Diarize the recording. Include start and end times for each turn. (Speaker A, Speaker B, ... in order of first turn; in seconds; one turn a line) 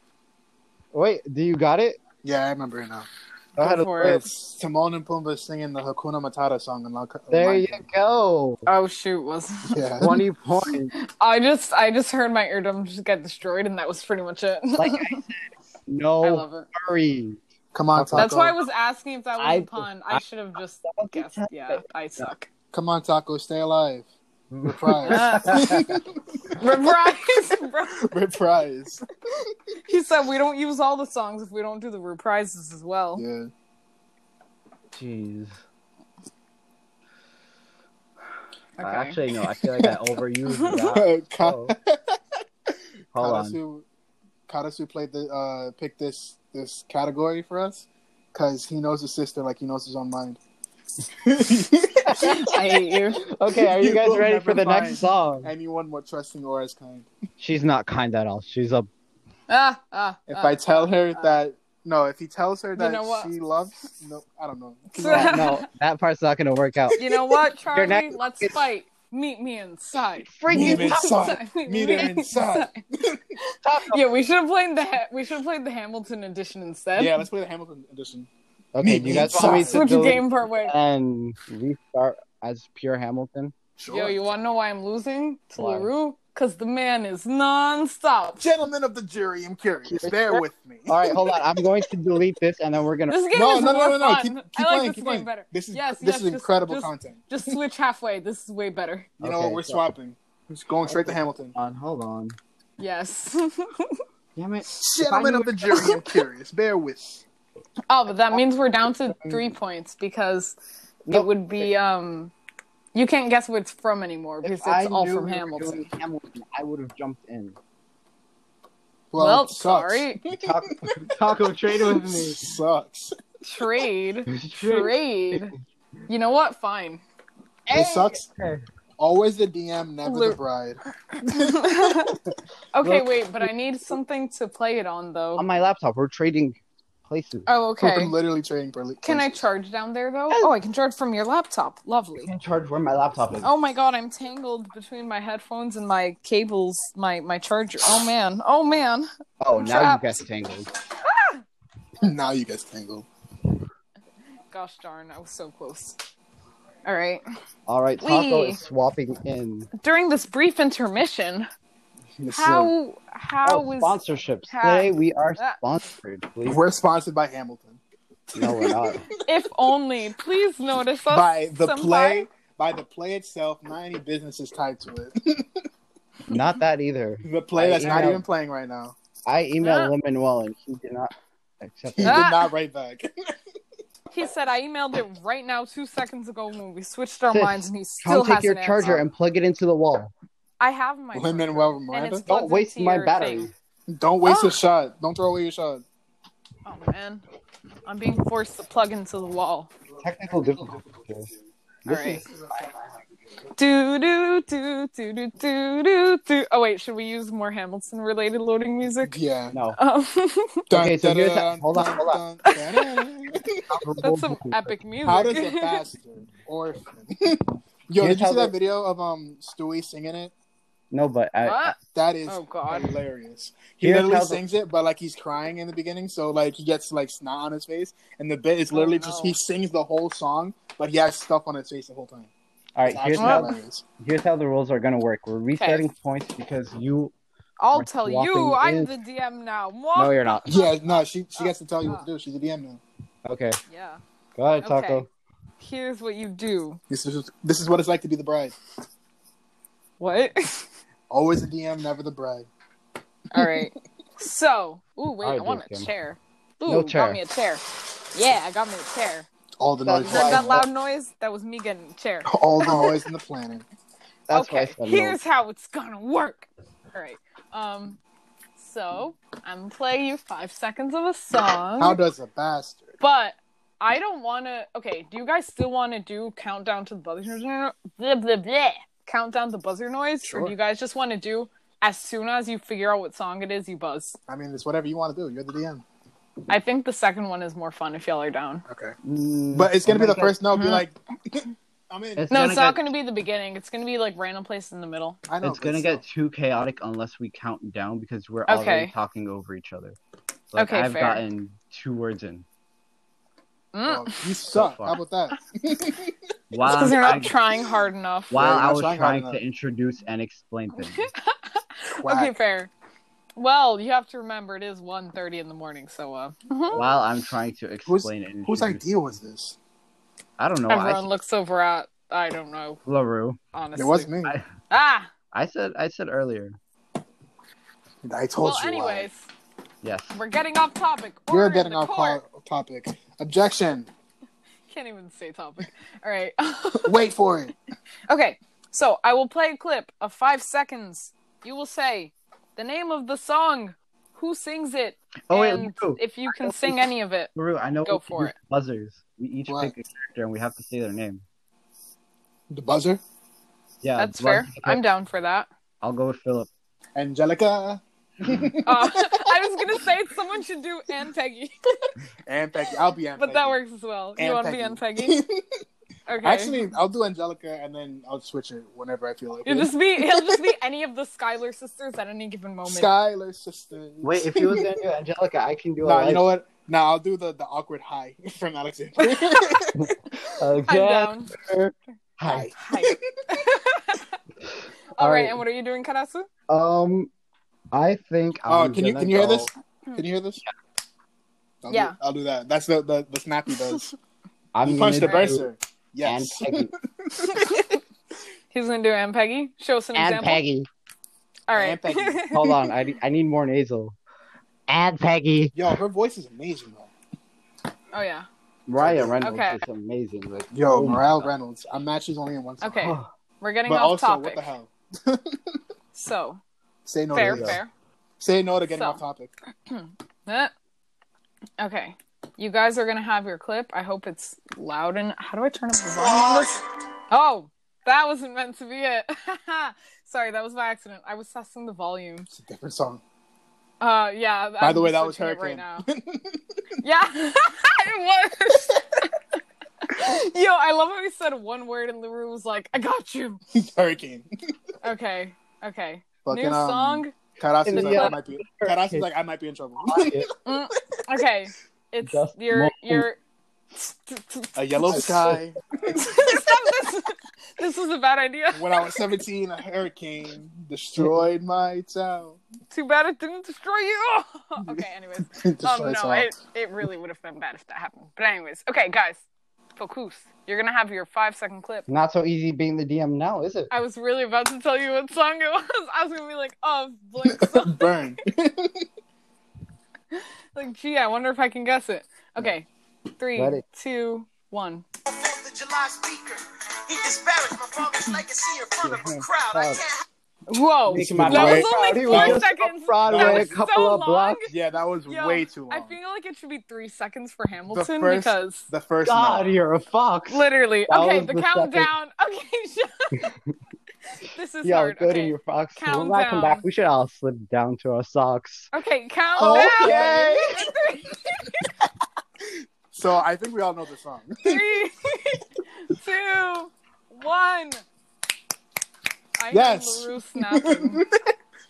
Speaker A: 0.9-2.0
Speaker B: 2.2-3.1
Speaker A: 3.5-4.2
Speaker C: 3.6-4.2
Speaker B: 4.0-7.8
Speaker A: 7.3-8.7
Speaker C: 8.7-9.9
Speaker B: 9.7-10.2
Speaker A: 10.0-10.9
Speaker C: 10.9-15.2
Speaker A: 14.8-17.4
Speaker C: 16.2-16.7
Speaker B: 17.7-18.6
Speaker A: 17.9-18.3
Speaker C: 18.1-22.5
Speaker A: 19.4-20.2
Speaker A: 20.8-22.3
Speaker B: 22.7-24.1
Speaker A: 24.5-26.0
Speaker B: 24.6-26.6
Speaker C: 25.0-25.7
Speaker C: 26.6-28.1
Speaker B: 28.1-29.0
Speaker C: 29.9-33.2
Speaker B: 33.2-33.5
Speaker A: 34.9-35.6
Speaker C: 38.8-39.2
Speaker A: 38.8-41.7
Speaker B: 40.7-42.1
Speaker A: 43.1-43.6
Speaker B: 43.1-43.9
Speaker B: 44.5-50.4
Speaker B: 51.2-52.6
Speaker C: 52.1-53.2
Speaker A: 53.2-55.5
Speaker B: 53.5-57.1
Speaker A: 57.4-58.9
Speaker C: 59.5-61.4
Speaker B: 60.3-65.5
Speaker C: 62.8-63.3
Speaker C: 64.9-65.7
Speaker A: 65.0-67.0
Speaker C: 67.0-72.8
Speaker A: 67.7-68.6
Speaker A: 70.3-71.2
Speaker B: 70.5-73.2
Speaker A: 73.6-74.0
Speaker C: 73.9-77.2
Speaker B: 76.9-78.3
Speaker A: 78.7-83.5
Speaker B: 78.8-80.0
Speaker C: 79.5-80.7
Speaker B: 83.8-84.2
Speaker C: 83.9-88.4
Speaker A: 85.6-85.9
Speaker B: 88.4-91.4
Speaker A: 89.8-93.2
Speaker C: 93.1-99.1
Speaker B: 93.3-97.6
Speaker B: 99.2-101.5
Speaker A: 99.2-99.9
Speaker A: 100.8-102.4
Speaker C: 102.8-104.0
Speaker A: 104.3-105.7
Speaker B: 104.8-107.2
Speaker C: 105.7-106.0
Speaker C: 107.9-110.5
Speaker A: 109.1-109.4
Speaker A: 111.0-111.7
Speaker C: 111.1-112.3
Speaker C: 112.9-115.9
Speaker A: 114.4-117.6
Speaker B: 119.1-121.1
Speaker C: 119.2-120.2
Speaker A: 120.3-122.4
Speaker B: 121.7-123.1
Speaker C: 123.4-125.5
Speaker A: 124.3-125.5
Speaker C: 126.1-127.0
Speaker A: 127.7-128.6
Speaker B: 127.7-128.3
Speaker B: 129.0-131.6
Speaker C: 130.0-130.4
Speaker C: 131.2-132.2
Speaker C: 132.7-135.4
Speaker A: 132.8-133.5
Speaker A: 135.4-137.5
Speaker C: 137.5-138.1
Speaker B: 137.8-139.4
Speaker C: 139.0-142.3
Speaker A: 142.2-143.5
Speaker C: 143.4-150.2
Speaker A: 149.4-150.7
Speaker C: 151.0-151.4
Speaker B: 152.0-153.1
Speaker C: 154.5-156.0
Speaker C: 156.8-157.2
Speaker A: 157.7-159.7
Speaker C: 158.0-158.6
Speaker C: 159.8-161.5
Speaker B: 162.2-162.7
Speaker C: 162.3-165.6
Speaker A: 163.4-166.6
Speaker B: 166.4-167.8
Speaker A: 168.3-169.1
Speaker B: 168.3-169.1
Speaker C: 169.1-172.2
Speaker B: 171.1-175.4
Speaker A: 176.3-178.2
Speaker B: 177.2-178.9
Speaker A: 179.2-182.2
Speaker C: 179.6-179.9
Speaker B: 182.0-183.1
Speaker C: 182.0-182.4
Speaker C: 184.1-189.0
Speaker A: 187.3-190.1
Speaker C: 190.6-193.5
Speaker B: 191.1-192.2
Speaker A: 192.3-193.5
Speaker B: 193.9-195.8
Speaker C: 194.2-194.6
Speaker C: 196.6-197.2
Speaker C: 197.8-199.7
Speaker A: 200.0-201.3
Speaker A: 201.8-203.0
Speaker C: 201.8-202.2
Speaker C: 203.5-209.1
Speaker B: 209.0-209.6
Speaker A: 209.5-209.8
Speaker C: 209.8-210.6
Speaker B: 210.7-213.6
Speaker A: 210.7-212.2
Speaker C: 212.4-213.1
Speaker A: 213.7-214.7
Speaker C: 214.0-215.8
Speaker B: 215.0-220.3
Speaker A: 218.0-218.5
Speaker A: 220.9-221.8
Speaker C: 221.4-221.8
Speaker B: 221.9-232.3
Speaker C: 222.3-222.9
Speaker A: 223.8-224.4
Speaker C: 228.7-229.3
Speaker A: 232.8-237.1
Speaker B: 232.8-233.8
Speaker C: 233.2-233.5
Speaker C: 235.6-235.9
Speaker C: 237.6-242.1
Speaker A: 237.7-238.9
Speaker A: 239.9-240.6
Speaker B: 240.5-242.8
Speaker A: 243.2-243.6
Speaker C: 243.7-244.0
Speaker A: 244.3-245.1
Speaker C: 244.6-245.1
Speaker C: 245.6-246.8
Speaker B: 246.9-248.6
Speaker C: 250.0-250.7
Speaker B: 251.1-252.5
Speaker C: 253.3-259.3
Speaker A: 255.2-255.9
Speaker A: 256.7-257.2
Speaker B: 259.6-260.6
Speaker A: 259.8-260.6
Speaker C: 260.0-262.9
Speaker B: 262.3-263.6
Speaker A: 264.3-265.2
Speaker C: 264.3-268.0
Speaker C: 268.6-272.0
Speaker B: 271.8-272.9
Speaker C: 273.0-284.2
Speaker B: 284.3-285.8
Speaker C: 286.5-288.6
Speaker B: 288.7-288.9
Speaker A: 289.0-290.4
Speaker B: 289.5-292.2
Speaker C: 290.5-290.8
Speaker A: 292.1-292.9
Speaker C: 292.3-295.2
Speaker B: 295.3-296.0
Speaker A: 295.4-300.0
Speaker C: 298.5-298.9
Speaker A: 300.5-302.4
Speaker C: 300.6-301.2
Speaker C: 303.7-304.2
Speaker B: 303.8-306.1
Speaker A: 304.5-305.0
Speaker A: 306.5-307.3
Speaker C: 306.6-308.3
Speaker A: 308.3-311.1
Speaker B: 308.3-309.4
Speaker C: 310.8-312.7
Speaker B: 311.9-312.3
Speaker C: 313.4-316.8
Speaker A: 316.7-318.9
Speaker B: 317.9-319.6
Speaker A: 320.4-321.1
Speaker C: 320.7-322.8
Speaker A: 322.9-323.4
Speaker C: 323.5-324.1
Speaker B: 323.7-324.4
Speaker C: 324.7-325.1
Speaker A: 325.3-326.6
Speaker B: 328.0-329.1
Speaker C: 328.4-329.3
Speaker A: 329.8-330.2
Speaker C: 330.1-332.2
Speaker B: 331.3-333.9
Speaker C: 334.7-337.0
Speaker B: 336.8-337.6
Speaker C: 338.1-347.3
Speaker A: 345.3-346.8
Speaker A: 347.3-351.2
Speaker C: 347.9-348.3
Speaker B: 349.5-349.7
Speaker B: 352.5-353.0
Speaker A: 353.8-354.8
Speaker C: 354.0-355.5
Speaker A: 355.8-356.5
Speaker B: 356.9-359.3
Speaker C: 358.6-361.9
Speaker B: 362.3-363.6
Speaker C: 363.2-365.2
Speaker B: 364.2-365.4
Speaker C: 366.1-366.7
Speaker B: 366.2-370.4
Speaker C: 369.4-372.9
Speaker B: 372.6-374.8
Speaker A: 374.0-376.3
Speaker B: 375.8-379.9
Speaker C: 379.0-379.6
Speaker A: 379.7-382.5
Speaker C: 380.2-381.3
Speaker B: 382.2-383.0
Speaker C: 382.6-384.2
Speaker C: 384.9-386.3
Speaker A: 385.0-385.4
Speaker A: 386.5-387.1
Speaker A: 387.7-389.5
Speaker B: 388.5-390.4
Speaker B: 391.6-393.9
Speaker C: 391.7-391.9
Speaker A: 394.5-395.5
Speaker B: 394.6-397.6
Speaker C: 395.0-395.3
Speaker A: 396.0-396.7
Speaker C: 397.2-397.8
Speaker C: 398.5-400.4
Speaker A: 399.9-400.7
Speaker C: 401.5-402.5
Speaker B: 401.5-402.5
Speaker A: 402.3-403.9
Speaker A: 404.7-405.6
Speaker B: 405.5-406.9
Speaker C: 407.9-408.3
Speaker A: 408.7-411.3
Speaker B: 408.8-409.2
Speaker C: 409.2-409.6
Speaker B: 410.5-412.9
Speaker C: 412.6-414.5
Speaker A: 412.8-413.1
Speaker B: 413.7-415.6
Speaker C: 415.9-416.4
Speaker B: 416.8-417.6
Speaker C: 417.1-417.7
Speaker A: 417.2-417.6
Speaker B: 418.2-419.3
Speaker C: 418.7-419.0
Speaker C: 419.7-420.5
Speaker C: 421.6-432.3
Speaker B: 426.1-426.4
Speaker B: 432.3-433.0
Speaker C: 433.8-435.9
Speaker B: 434.6-436.4
Speaker C: 436.8-439.2
Speaker C: 439.8-443.4
Speaker B: 443.5-444.3
Speaker C: 444.8-447.1
Speaker B: 446.2-450.3
Speaker A: 447.6-449.1
Speaker C: 447.7-448.1
Speaker A: 449.8-450.3
Speaker C: 450.4-453.2
Speaker A: 452.0-453.1
Speaker C: 453.7-455.3
Speaker B: 454.6-456.4
Speaker C: 455.9-459.0
Speaker B: 458.5-462.4
Speaker C: 462.7-469.2
Speaker B: 464.7-466.3
Speaker C: 469.8-471.9
Speaker A: 471.9-473.7
Speaker C: 473.7-477.9
Speaker B: 477.2-478.8
Speaker C: 480.1-484.8
Speaker A: 483.4-483.6
Speaker D: 485.2-486.3
Speaker D: 486.9-487.6
Speaker D: 488.3-489.0
Speaker A: 488.8-489.8
Speaker C: 490.5-494.5
Speaker A: 490.9-494.4
Speaker B: 490.9-492.4
Speaker B: 493.0-493.6
Speaker B: 494.5-495.9
Speaker C: 495.1-498.7
Speaker B: 497.7-499.5
Speaker A: 499.0-501.9
Speaker C: 500.3-503.3
Speaker C: 504.2-506.6
Speaker A: 504.6-508.7
Speaker C: 508.7-511.6
Speaker B: 509.4-510.6
Speaker A: 509.4-510.6
Speaker B: 512.9-514.6
Speaker C: 514.4-517.8
Speaker C: 519.4-521.0
Speaker B: 519.5-521.2